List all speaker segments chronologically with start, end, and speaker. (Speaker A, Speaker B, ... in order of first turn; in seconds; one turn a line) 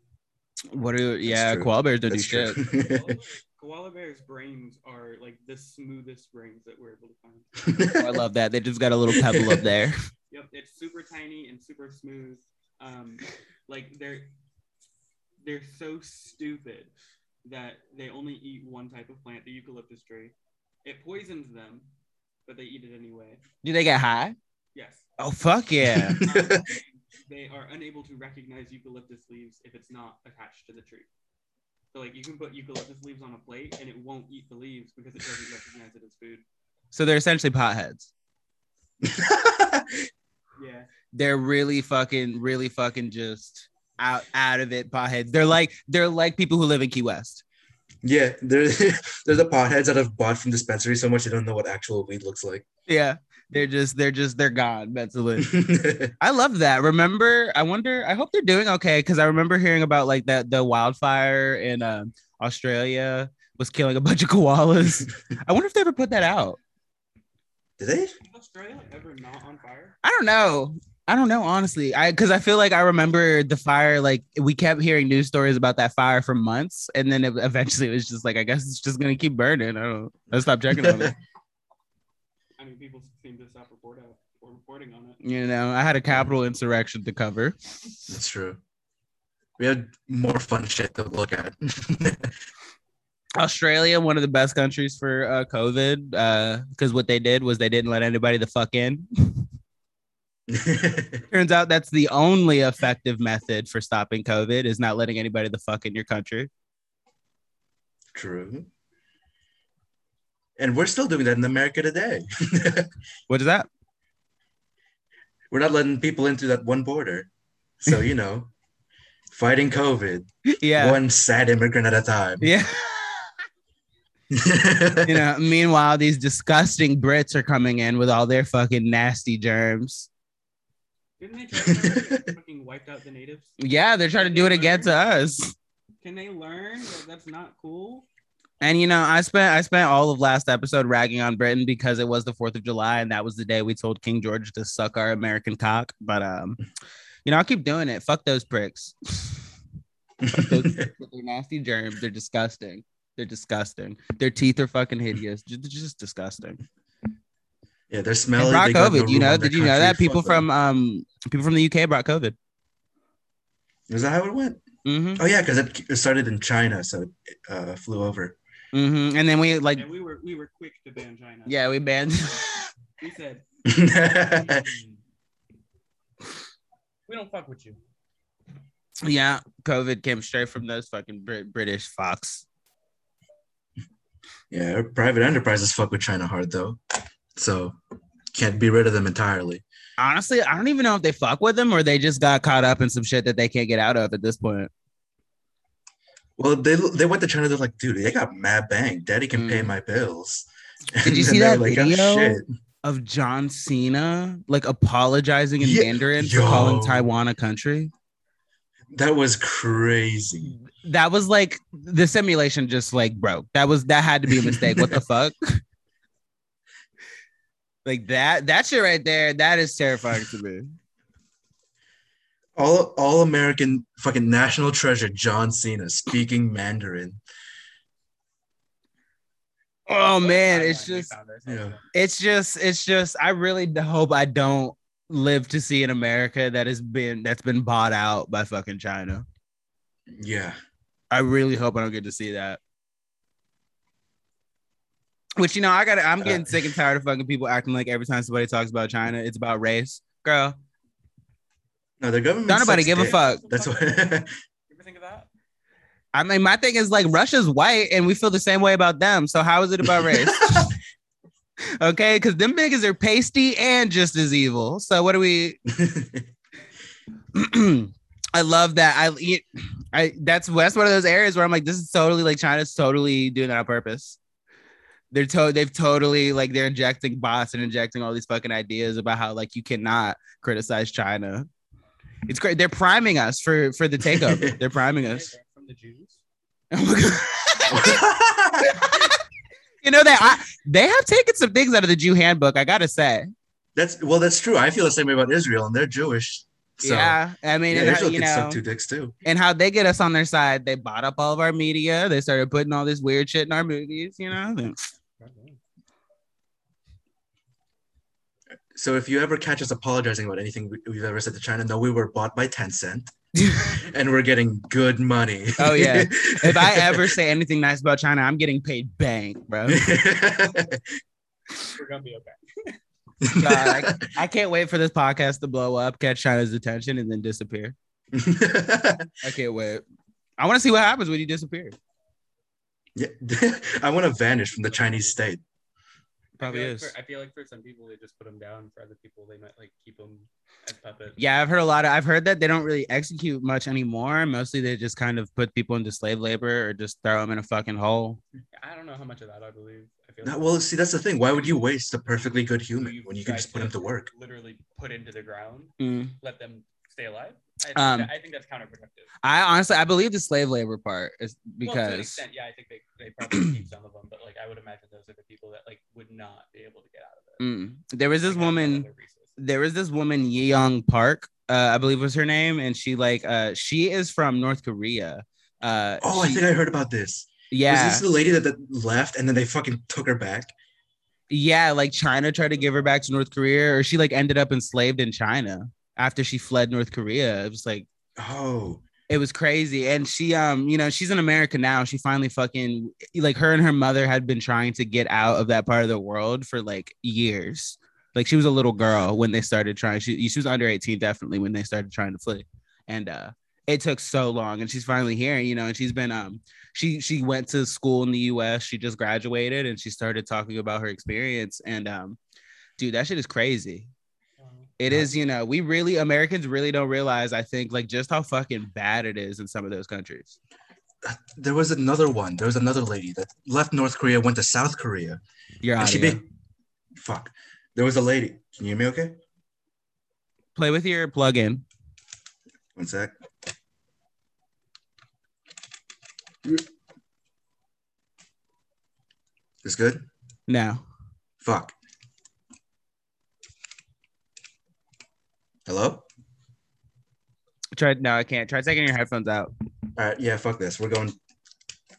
Speaker A: 0.7-2.6
Speaker B: 1.2-3.2
Speaker C: 2.6-7.7
Speaker B: 7.7-8.0
Speaker A: 7.9-10.0
Speaker B: 9.2-9.7
Speaker C: 10.3-14.3
Speaker C: 15.4-16.9
Speaker C: 17.4-20.3
Speaker C: 20.9-21.9
Speaker C: 22.5-23.4
Speaker A: 23.6-24.4
Speaker C: 24.8-25.1
Speaker A: 25.2-26.2
Speaker B: 25.8-26.7
Speaker C: 26.2-31.1
Speaker C: 31.9-36.4
Speaker A: 36.9-38.1
Speaker B: 39.0-40.1
Speaker C: 40.6-40.9
Speaker A: 41.1-47.4
Speaker B: 48.0-52.6
Speaker A: 52.9-55.5
Speaker B: 55.4-56.1
Speaker A: 56.2-66.6
Speaker B: 67.8-68.1
Speaker C: 68.2-70.0
Speaker A: 70.0-81.1
Speaker B: 80.7-81.2
Speaker C: 82.6-85.2
Speaker A: 85.2-87.6
Speaker B: 88.1-88.6
Speaker B: 89.6-92.4
Speaker A: 93.4-99.5
Speaker B: 100.5-101.3
Speaker A: 101.3-106.5
Speaker B: 108.1-108.7
Speaker B: 110.6-112.9
Speaker A: 113.3-113.7
Speaker B: 115.5-118.5
Speaker B: 119.3-122.5
Speaker A: 120.5-121.0
Speaker A: 122.4-123.3
Speaker B: 124.3-125.3
Speaker A: 125.0-130.1
Speaker C: 131.2-133.6
Speaker B: 131.6-132.3
Speaker A: 133.6-135.5
Speaker C: 134.2-135.0
Speaker C: 136.0-138.1
Speaker A: 138.6-146.6
Speaker A: 147.2-149.4
Speaker B: 150.2-150.9
Speaker A: 150.3-156.6
Speaker B: 157.9-160.5
Speaker A: 158.4-162.4
Speaker B: 163.9-164.6
Speaker A: 164.8-165.2
Speaker B: 165.2-168.4
Speaker A: 168.7-169.8
Speaker C: 169.8-171.6
Speaker A: 171.5-172.7
Speaker C: 173.0-173.4
Speaker B: 173.7-174.7
Speaker C: 174.0-175.0
Speaker C: 177.1-177.8
Speaker A: 179.1-182.4
Speaker B: 184.5-186.8
Speaker B: 187.3-187.8
Speaker B: 188.3-189.6
Speaker A: 190.0-194.7
Speaker B: 196.4-202.4
Speaker A: 199.3-199.8
Speaker A: 201.0-207.9
Speaker B: 205.6-207.1
Speaker B: 208.9-210.5
Speaker A: 210.4-215.6
Speaker B: 214.3-215.0
Speaker A: 217.8-220.7
Speaker B: 222.6-227.2
Speaker A: 229.9-231.1
Speaker C: 230.2-231.9
Speaker B: 231.5-231.8
Speaker A: 231.9-239.2
Speaker B: 240.1-240.6
Speaker A: 241.1-242.6
Speaker A: 245.4-250.6
Speaker B: 246.2-246.6
Speaker B: 252.0-254.3
Speaker A: 252.5-253.4
Speaker C: 252.9-255.3
Speaker A: 256.1-260.7
Speaker B: 259.9-260.7
Speaker A: 261.8-265.6
Speaker B: 265.7-266.3
Speaker A: 267.3-274.2
Speaker A: 275.1-281.5
Speaker A: 282.3-285.3
Speaker B: 284.1-284.6
Speaker C: 284.9-286.2
Speaker A: 286.7-288.0
Speaker B: 287.7-288.8
Speaker A: 288.6-289.2
Speaker A: 289.8-293.3
Speaker B: 293.8-297.2
Speaker A: 296.8-298.6
Speaker B: 297.7-299.1
Speaker A: 299.2-304.9
Speaker C: 305.2-305.6
Speaker B: 308.7-317.1
Speaker A: 313.4-313.7
Speaker A: 315.6-319.8
Speaker B: 319.7-320.9
Speaker C: 321.7-322.4
Speaker B: 323.2-324.1
Speaker A: 323.4-327.8
Speaker B: 328.1-329.1
Speaker A: 329.2-329.8
Speaker A: 330.4-331.8
Speaker B: 333.0-335.4
Speaker C: 334.6-335.1
Speaker C: 336.4-341.2
Speaker A: 336.4-336.9
Speaker A: 341.2-348.2
Speaker C: 348.6-350.7
Speaker B: 350.2-354.1
Speaker C: 352.8-359.1
Speaker A: 355.8-356.1
Speaker A: 357.8-358.1
Speaker A: 359.2-362.2
Speaker C: 361.6-367.4
Speaker A: 367.4-368.9
Speaker C: 368.2-369.3
Speaker A: 369.4-376.4
Speaker B: 376.0-380.5
Speaker A: 377.5-378.0
Speaker A: 381.3-387.9
Speaker B: 388.2-388.8
Speaker A: 389.1-412.2
Speaker A: 412.8-413.9
Speaker C: 414.4-414.7
Speaker A: 414.8-420.4
Speaker B: 421.0-425.2
Speaker A: 425.6-426.2
Speaker B: 425.8-426.2
Speaker B: 427.0-429.2
Speaker A: 430.6-431.6
Speaker B: 432.8-433.1
Speaker B: 439.6-440.1
Speaker A: 440.5-440.9
Speaker B: 441.4-441.8
Speaker B: 445.7-446.1
Speaker A: 447.8-449.5
Speaker B: 450.0-451.2